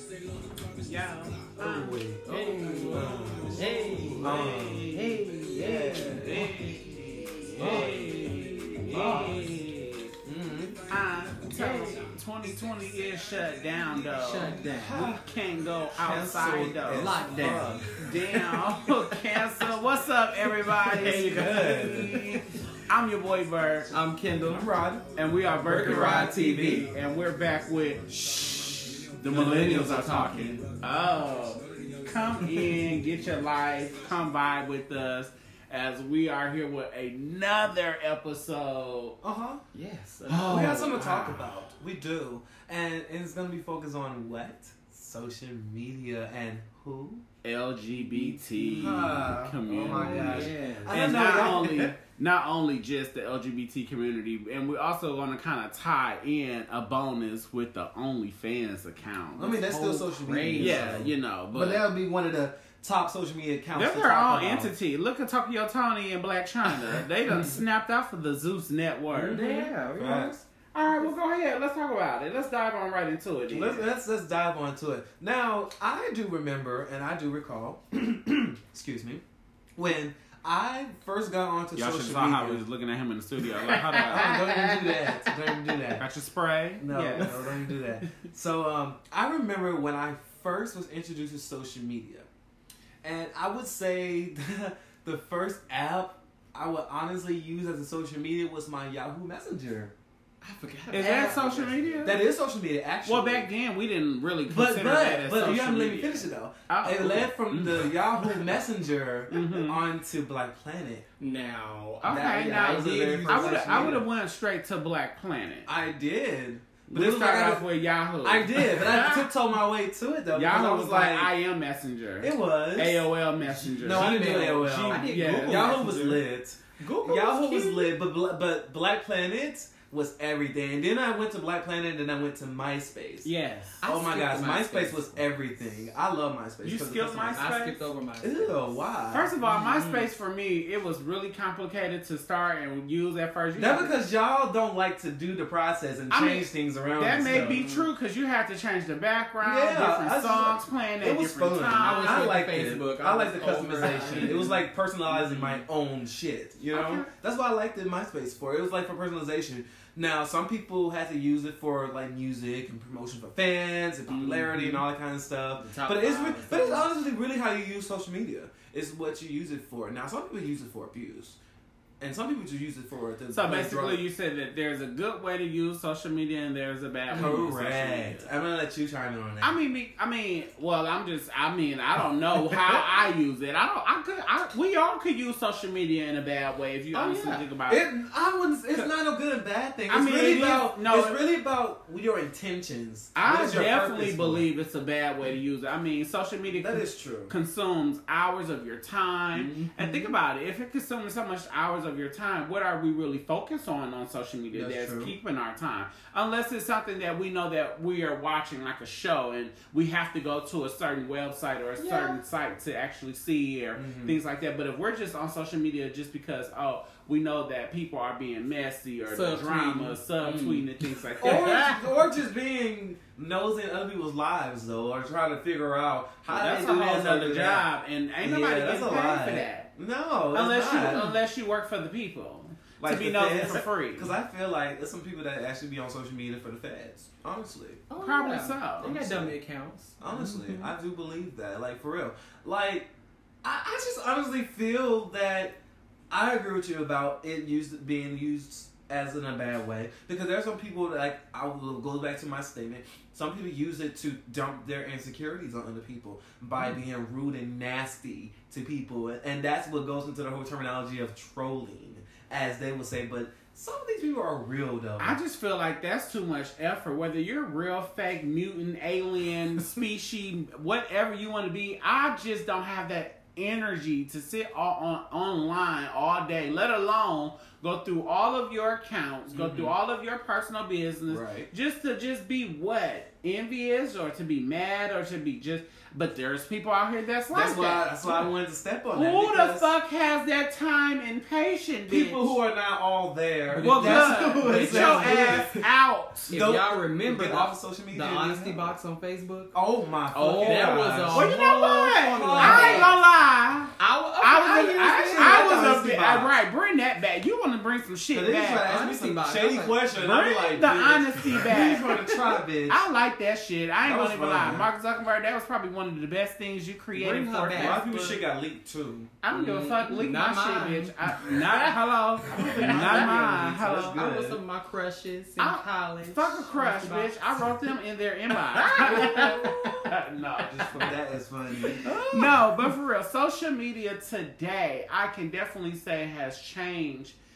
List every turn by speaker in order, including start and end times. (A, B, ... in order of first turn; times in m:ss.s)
0:00.8-0:03.2 A
0:01.6-0:02.3 B
0:02.2-0:06.5 C
0:02.9-0:03.6 B
0:04.1-0:10.1 A
0:04.2-0:05.0 B
0:05.5-0:06.5 B
0:07.6-0:08.0 B
0:07.6-0:08.1 C
0:08.9-0:09.4 B
0:08.9-0:09.5 C
0:10.2-0:10.8 B
0:10.9-0:17.2 A
0:11.5-0:12.0 C
0:14.1-0:15.1 C
0:14.8-0:15.2 B
0:16.0-0:17.8 B
0:16.9-0:17.9 C
0:18.0-0:23.9 A
0:20.8-0:22.4 C
0:21.2-0:22.2 B
0:23.9-0:24.7 C
0:24.5-0:25.0 B
0:25.1-0:39.2 A
0:25.6-0:26.8 C
0:25.6-0:26.8 B
0:29.3-0:30.6 C
0:39.2-0:39.6 B
0:39.7-0:41.2 C
0:40.3-0:41.4 A
0:40.4-0:47.2 B
0:47.4-1:00.0 A
0:48.1-0:52.0 B
0:49.7-0:51.0 C
0:59.4-1:04.7 B
0:59.7-1:01.0 C
1:00.6-1:01.8 A
1:03.7-1:09.7 A
1:07.3-1:07.6 B
1:09.1-1:10.3 B
1:09.3-1:10.4 C
1:10.7-1:13.8 A
1:13.5-1:19.2 B
1:19.8-1:22.6 B
1:21.7-1:24.4 A
1:23.9-1:25.1 C
1:24.0-1:26.0 B
1:26.0-1:27.4 A
1:26.8-1:32.3 B
1:33.0-1:39.9 B
1:40.4-1:42.1 C
1:40.9-1:42.2 A
1:40.9-1:43.5 B
1:43.0-1:48.4 A
1:44.5-1:51.0 B
1:49.3-1:49.8 A
1:51.2-1:54.0 C
1:52.0-1:55.7 A
1:52.0-1:54.0 B
1:55.6-1:57.6 B
1:56.9-1:59.3 A
1:58.2-2:01.3 B
2:00.3-2:05.9 A
2:02.2-2:03.1 B
2:03.6-2:06.2 C
2:03.8-2:13.3 B
2:06.8-2:07.9 C
2:13.2-2:15.2 C
2:13.8-2:17.5 B
2:16.6-2:17.8 A
2:17.3-2:18.8 C
2:18.2-2:19.3 B
2:19.1-2:24.0 A
2:19.4-2:20.1 C
2:23.6-2:27.6 B
2:26.1-2:32.3 A
2:27.2-2:27.9 C
2:29.4-2:51.4 B
2:31.7-2:35.6 C
2:33.9-2:34.4 A
2:36.7-2:37.1 A
2:44.1-2:44.8 C
2:45.6-2:46.9 C
2:52.0-2:54.0 B
2:53.3-2:58.3 A
2:57.1-2:57.4 C
2:57.1-2:59.6 B
2:59.4-3:07.9 A
3:02.4-3:02.8 B
3:06.9-3:07.4 C
3:07.7-3:14.5 B
3:09.9-3:11.2 A
3:13.1-3:41.7 A
3:16.6-3:17.3 B
3:19.3-3:20.1 C
3:24.5-3:25.1 B
3:31.8-3:32.2 C
3:33.8-3:34.2 B
3:39.1-3:41.8 C
3:41.2-3:47.7 B
3:46.3-3:46.7 C
3:46.4-3:49.7 A
3:48.2-3:51.0 B
3:50.3-3:54.1 A
3:50.9-3:51.2 C
3:52.8-3:57.8 B
3:57.9-4:00.7 C
3:58.0-3:59.0 A
3:58.9-3:59.4 B
4:00.0-4:02.9 B
4:03.4-4:05.6 B
4:06.1-4:25.2 B
4:25.0-4:48.2 A
4:39.3-4:39.7 B
4:41.1-4:41.5 B
4:47.3-4:49.7 B
4:48.9-4:52.4 A
4:51.9-4:55.7 B
4:53.5-4:55.6 C
4:53.6-4:56.4 A
4:56.3-4:59.6 C
4:56.3-4:58.7 B
4:59.5-5:03.0 B
5:00.1-5:08.6 A
5:00.2-5:03.0 C
5:03.8-5:05.6 C
5:04.4-5:06.3 B
5:08.1-5:12.9 B
5:08.6-5:09.8 C
5:10.0-5:18.1 A
5:13.8-5:14.7 B
5:17.0-5:18.2 C
5:17.6-5:19.1 B
5:19.2-5:24.0 A
5:19.3-5:21.7 C
5:22.3-5:24.4 B
5:22.4-5:23.2 C
5:23.8-5:27.5 C
5:25.4-5:30.9 A
5:28.5-5:29.8 C
5:28.8-5:32.0 B
5:31.6-5:37.2 A
5:31.8-5:32.5 C